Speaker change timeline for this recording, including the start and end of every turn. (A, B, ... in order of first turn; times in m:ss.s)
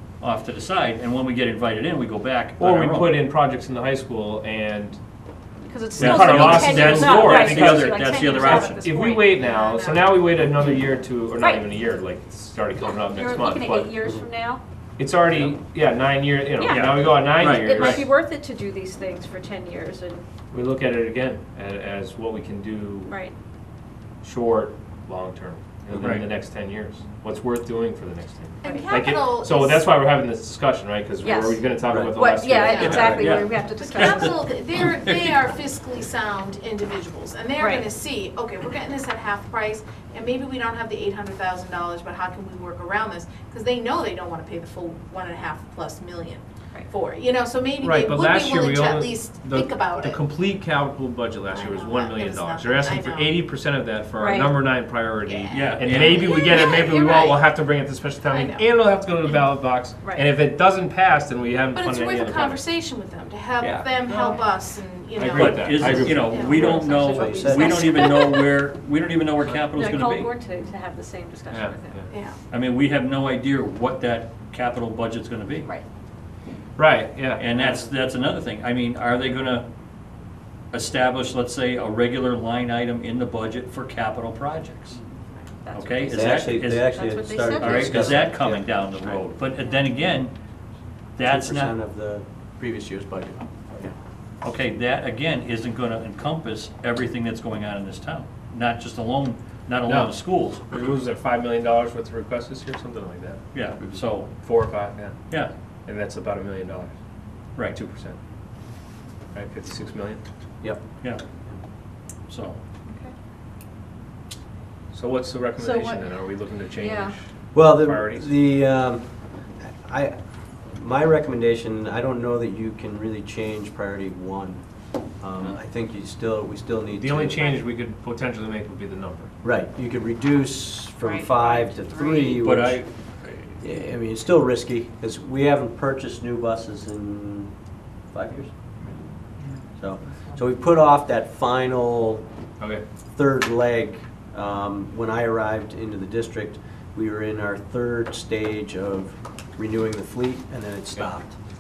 0:00.2-0:03.2 A
0:02.6-0:05.0 B
0:05.7-0:09.4 C
0:06.0-0:13.9 B
0:06.0-0:08.8 A
0:09.4-0:10.2 D
0:12.8-0:14.6 C
0:15.0-0:18.1 B
0:16.6-0:20.3 C
0:16.7-0:18.1 A
0:20.5-0:23.2 B
0:23.1-0:23.3 C
0:24.2-0:33.2 B
0:28.6-0:29.0 C
0:28.6-0:29.9 D
0:31.2-0:34.5 C
0:31.9-0:32.2 E
0:32.7-0:50.2 D
0:32.8-0:35.6 A
0:32.9-0:33.4 E
0:37.6-0:37.9 C
0:47.8-1:02.6 B
0:51.5-0:53.4 D
0:54.2-0:54.6 C
0:55.2-0:57.5 D
0:55.5-0:56.4 A
0:58.3-0:58.6 D
1:00.0-1:00.3 C
1:01.7-1:08.5 D
1:03.6-1:04.4 B
1:05.2-1:07.0 B
1:05.3-1:10.3 A
1:06.6-1:08.2 E
1:07.0-1:08.3 C
1:09.5-1:12.0 C
1:11.5-1:12.1 B
1:12.1-1:12.4 D
1:12.5-1:15.7 A
1:16.8-1:17.4 B
1:17.4-1:19.7 A
1:20.7-1:25.0 A
1:25.6-1:28.4 C
1:25.7-1:27.0 A
1:26.1-1:28.7 E
1:27.6-1:30.3 A
1:31.2-1:31.7 A
1:31.2-1:33.9 E
1:34.4-1:40.6 A
1:39.9-1:40.2 B
1:40.7-1:43.4 B
1:43.5-1:44.5 A
1:44.4-1:45.2 B
1:45.9-1:47.0 B
1:47.6-1:48.2 B
1:49.3-1:50.2 B
1:52.3-1:52.6 A
1:52.9-1:53.1 C
1:54.9-1:58.3 B
1:55.6-1:56.2 C
1:56.8-1:57.2 C
1:57.5-2:04.6 E
2:05.2-2:07.4 E
2:07.0-2:09.3 B
2:09.4-2:12.8 E
2:11.0-2:12.4 C
2:12.4-2:13.6 A
2:13.6-2:17.5 E
2:18.1-2:18.5 E
2:19.8-2:22.2 E
2:23.1-2:31.4 E